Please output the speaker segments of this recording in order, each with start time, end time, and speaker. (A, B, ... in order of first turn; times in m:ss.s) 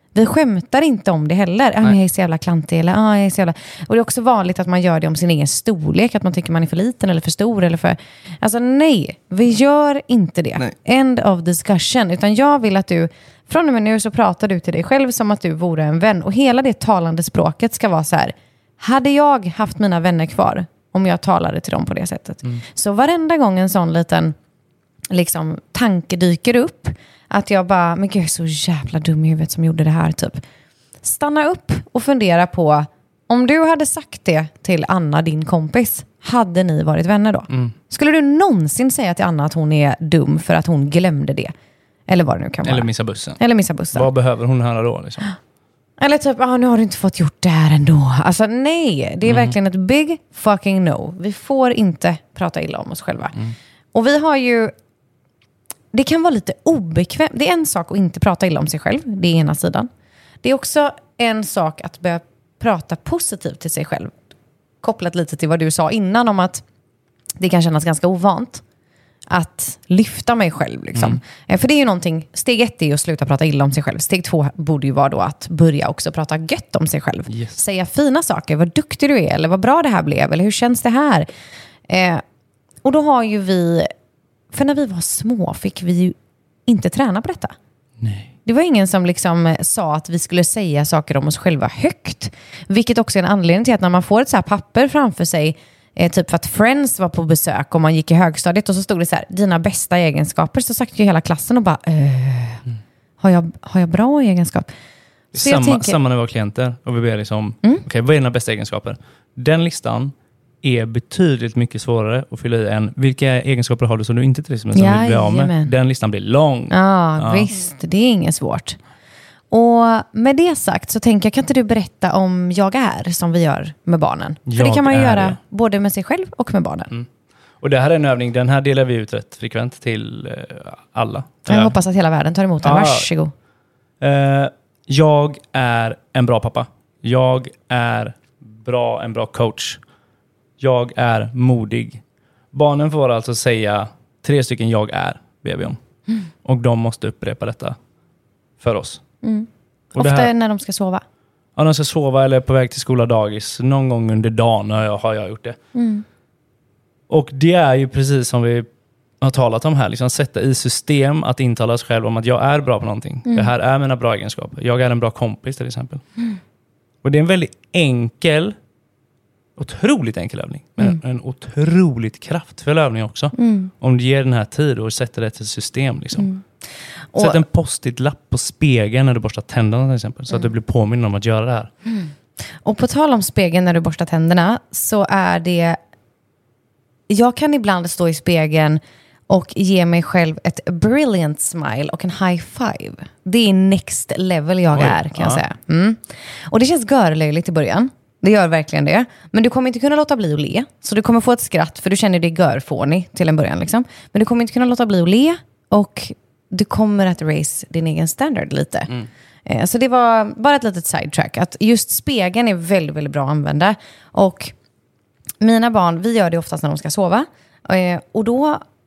0:00.1-0:24.3 A
0:25.1-0:30.4 A
0:31.0-0:41.5 A
0:42.1-0:42.9 A
0:42.6-0:43.4 B
0:43.4-0:44.1 A
0:43.9-0:45.3 B
0:46.0-0:53.4 A
0:49.2-0:49.5 B
0:53.9-0:54.7 A
0:55.9-0:59.9 A
1:00.4-1:04.2 A
1:04.8-1:06.6 A
1:07.4-1:08.6 A
1:09.3-1:21.3 A
1:10.9-1:11.2 B
1:21.9-1:22.2 A
1:22.8-1:23.9 A
1:24.5-1:26.2 A
1:26.7-1:27.6 A
1:28.0-1:28.3 B
1:28.4-1:42.6 A
1:43.2-1:44.7 A
1:45.3-1:57.5 B
1:45.4-1:46.0 A
1:54.7-1:55.7 A
1:56.7-1:58.8 A
1:59.5-2:06.9 A
2:04.5-2:05.4 B
2:07.6-2:11.8 B
2:11.5-2:13.3 A
2:12.6-2:13.1 B
2:14.0-2:19.8 B
2:20.6-2:22.0 B
2:22.5-2:25.8 B
2:26.4-2:27.8 B
2:28.6-2:29.0 B
2:29.2-2:31.0 A
2:30.0-2:30.3 B
2:31.6-2:35.6 B
2:35.7-2:36.0 A
2:37.1-2:38.7 B
2:39.2-2:46.0 B
2:47.0-2:48.6 B
2:49.6-2:56.3 B
2:53.4-2:53.7 A
2:56.2-2:56.4 A
2:57.1-2:57.4 A
2:57.2-3:01.7 B
3:02.6-3:05.8 A
3:07.1-3:34.5 A
3:14.7-3:15.4 B
3:35.4-3:38.6 A